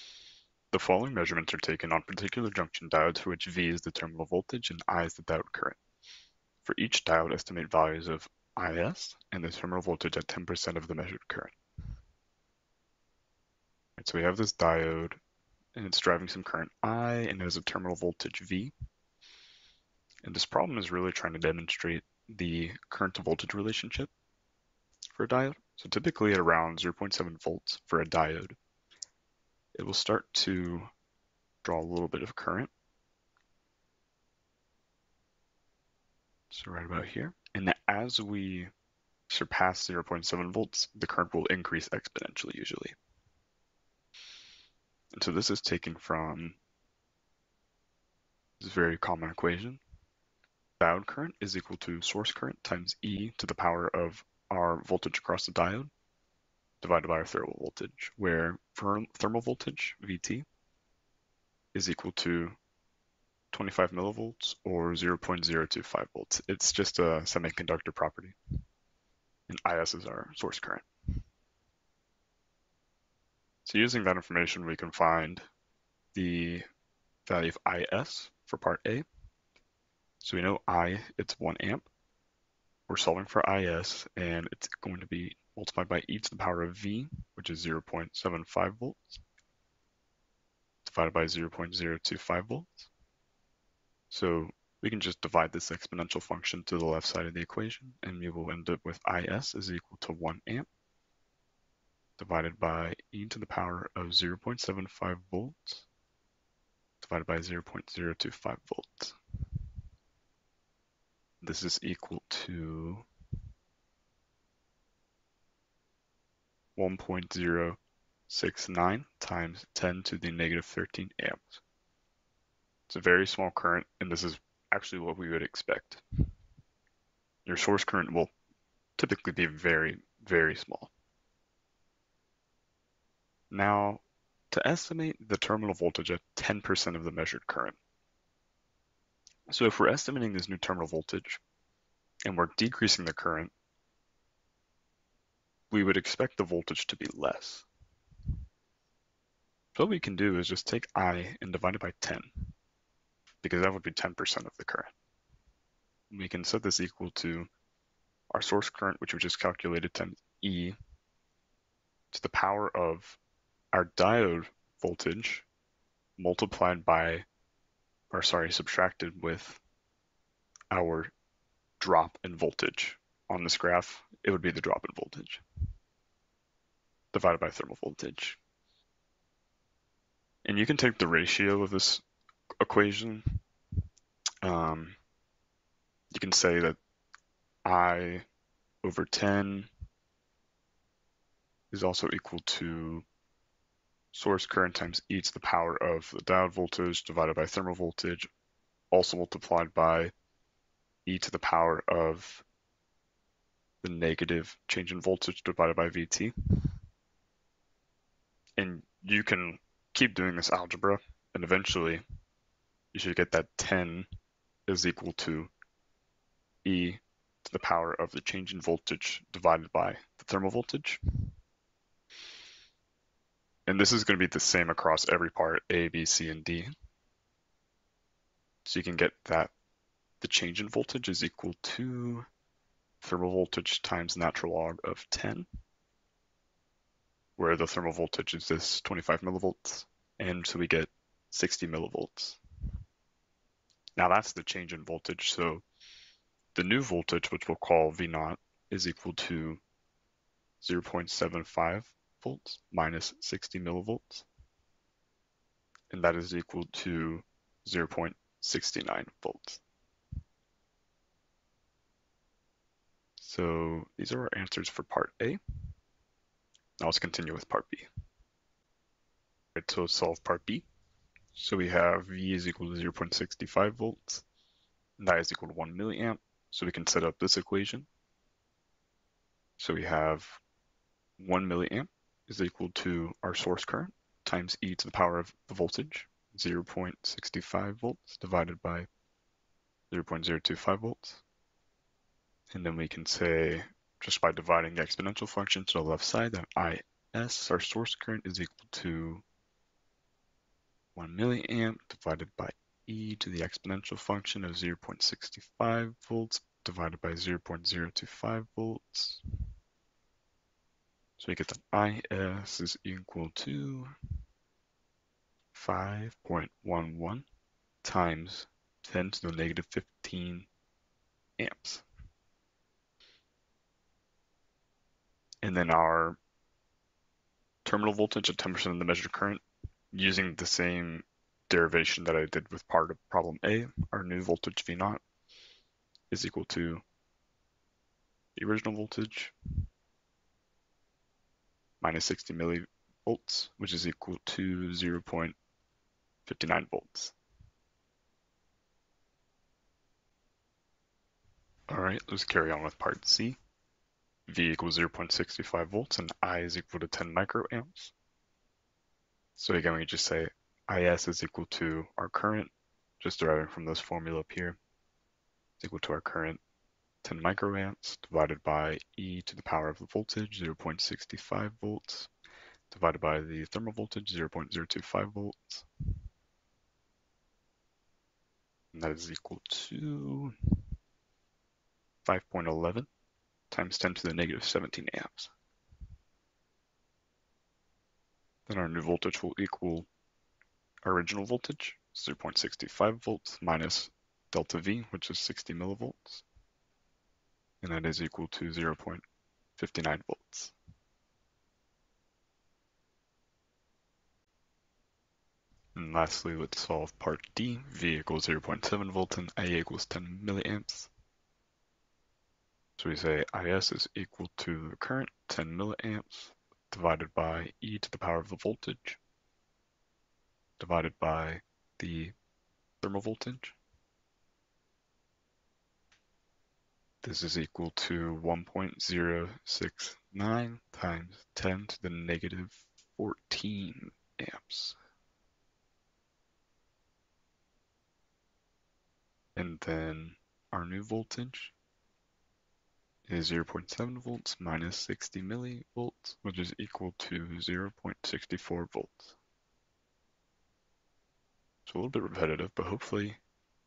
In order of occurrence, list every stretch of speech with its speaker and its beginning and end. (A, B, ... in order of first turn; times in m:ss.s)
0:00.7-0:05.8 A
0:06.6-0:11.5 A
0:14.0-0:15.2 A
0:15.7-0:18.7 A
0:20.2-0:24.1 A
0:25.1-0:28.6 A
0:29.7-0:30.9 A
0:31.6-0:32.7 A
0:36.5-0:38.7 A
0:39.3-0:42.9 A
0:45.1-0:46.6 A
0:48.6-0:49.8 A
0:50.8-0:55.9 A
0:56.8-1:00.4 A
1:01.7-1:02.6 A
1:03.5-1:08.4 A
1:09.5-1:10.8 A
1:13.6-1:15.4 A
1:16.1-1:16.6 A
1:17.2-1:19.0 A
1:20.2-1:21.9 A
1:22.9-1:29.2 A
1:30.8-1:32.9 A
1:34.1-1:40.7 A
1:42.2-1:45.8 A
1:47.0-1:49.2 A
1:51.4-1:53.0 A
1:56.8-2:01.6 A
2:02.9-2:06.0 A
2:07.4-2:08.3 A
2:09.0-2:10.9 A
2:13.5-2:17.8 A
2:19.5-2:21.4 A
2:22.2-2:23.5 A
2:25.7-2:27.6 A
2:29.7-2:32.3 A
2:33.4-2:34.9 A
2:36.1-2:37.5 A
2:38.3-2:40.7 A
2:42.1-2:43.2 A
2:43.7-2:45.4 A
2:46.2-2:47.2 A
2:48.1-2:49.6 A
2:50.7-2:51.1 A
2:51.8-2:55.4 A
2:57.1-2:58.4 A
3:00.4-3:02.0 A
3:02.6-3:03.2 A
3:04.4-3:05.0 A
3:06.1-3:06.8 A
3:07.6-3:08.2 A
3:08.8-3:09.7 A
3:11.7-3:13.0 A
3:14.1-3:18.3 A
3:18.9-3:20.1 A
3:21.0-3:22.4 A
3:23.8-3:26.3 A
3:28.6-3:32.0 A
3:32.9-3:34.1 A
3:34.7-3:35.5 A
3:36.6-3:41.0 A
3:43.7-3:46.7 A
3:48.6-3:49.5 A
3:50.2-3:52.2 A
3:53.0-3:55.5 A
3:57.4-4:02.4 A
4:04.0-4:05.6 A
4:06.5-4:09.6 A
4:10.6-4:14.3 A
4:15.9-4:19.6 A
4:23.2-4:25.4 A
4:26.8-4:27.9 A
4:29.5-4:30.7 A
4:31.3-4:34.2 A
4:35.0-4:37.9 A
4:39.6-4:40.4 A
4:41.2-4:48.9 A
4:49.9-4:51.2 A
4:52.5-4:59.2 A
5:00.9-5:09.2 A
5:11.2-5:13.9 A
5:15.5-5:17.2 A
5:17.8-5:20.5 A
5:21.4-5:21.8 A
5:25.4-5:26.2 A
5:27.6-5:35.0 A
5:36.1-5:36.8 A
5:38.4-5:39.3 A
5:41.8-5:45.4 A
5:46.2-5:47.1 A
5:51.7-5:53.4 A
5:54.3-5:57.9 A
5:59.4-6:04.6 A
6:05.6-6:06.4 A
6:07.0-6:12.1 A
6:12.7-6:15.6 A
6:18.7-6:20.3 A
6:22.0-6:22.9 A
6:23.5-6:25.3 A
6:28.5-6:29.9 A
6:30.8-6:36.2 A
6:37.6-6:39.0 A
6:39.6-6:40.5 A
6:45.8-6:50.9 A
6:52.8-6:59.0 A
7:00.6-7:02.1 A
7:02.8-7:03.6 A
7:07.0-7:14.8 A
7:19.4-7:21.5 A
7:23.0-7:29.2 A
7:31.6-7:33.2 A